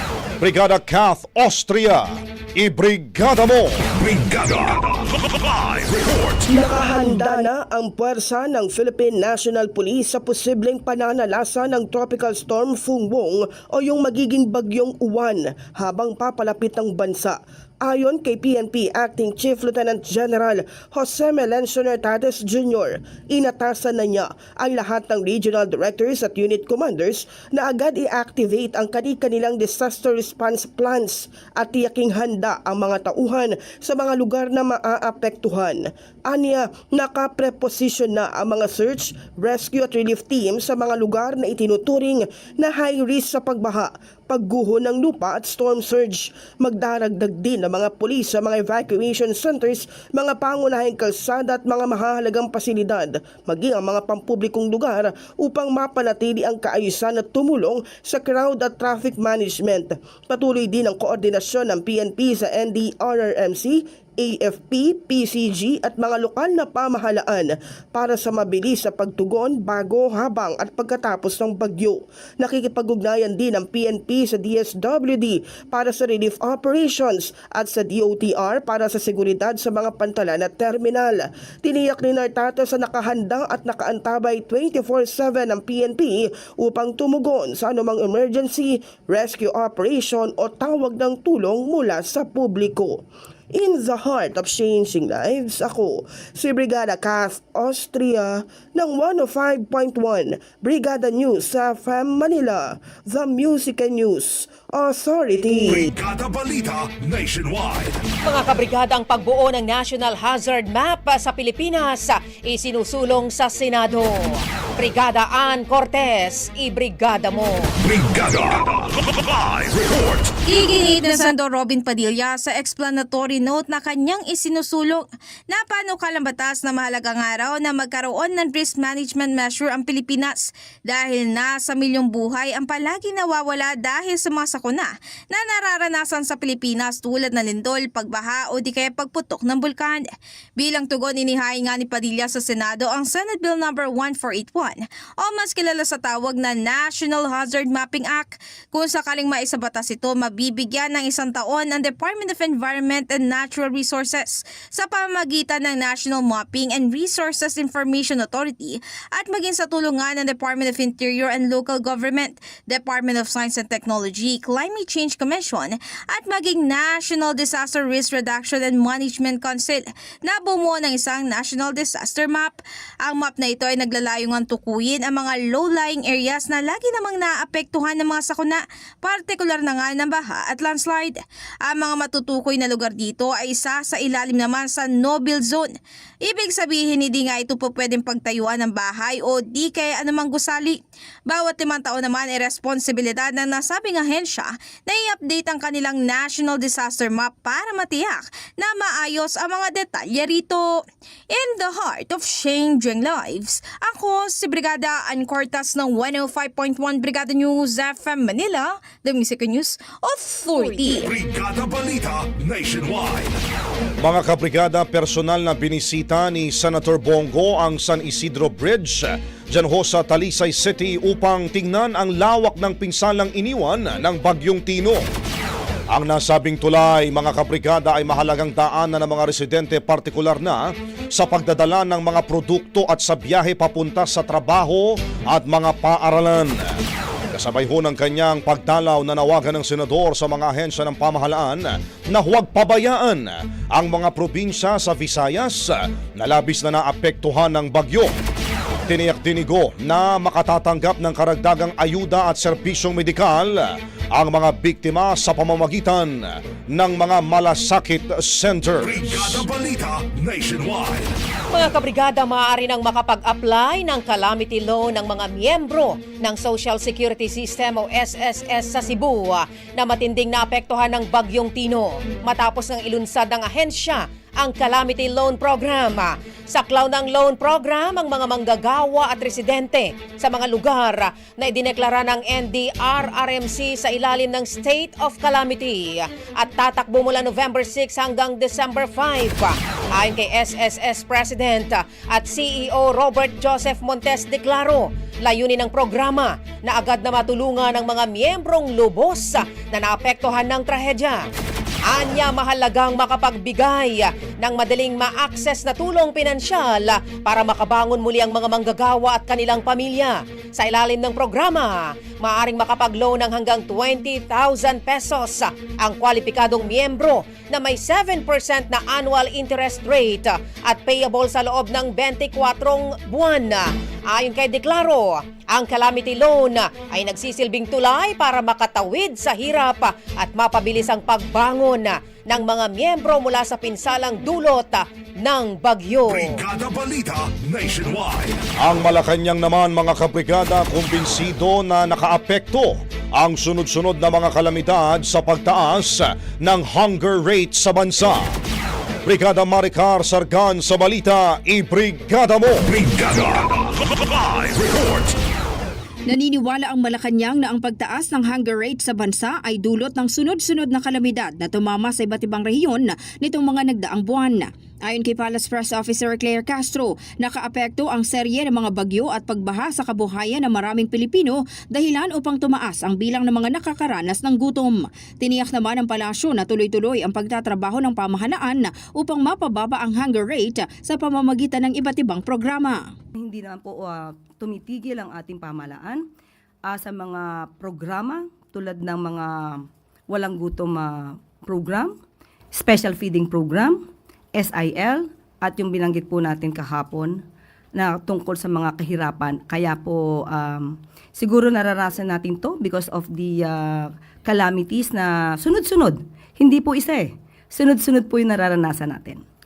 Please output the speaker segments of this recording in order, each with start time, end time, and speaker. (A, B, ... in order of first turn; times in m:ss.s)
0:00.4-0:03.9 A
0:03.9-0:06.5 B
0:06.5-1:45.9 C
0:06.6-0:07.4 D
1:45.5-1:48.0 B
1:48.2-1:57.7 E
1:57.8-2:00.3 B
2:00.4-2:20.0 F
2:20.6-3:31.1 F
3:30.6-3:30.9 G
3:31.0-3:33.3 B
3:34.0-3:45.0 A
3:45.9-3:56.7 A
3:57.3-4:08.1 A
4:08.9-4:19.4 A
4:18.8-4:21.1 B
4:21.5-5:01.2 E
5:01.9-5:36.4 E
5:36.1-5:38.4 B
5:38.6-5:48.2 A
5:49.0-5:52.7 A
5:52.6-5:55.1 B
5:56.1-6:22.9 G
6:23.2-6:26.0 D
6:26.6-6:32.0 D
6:32.5-6:37.2 D
6:37.7-6:49.2 D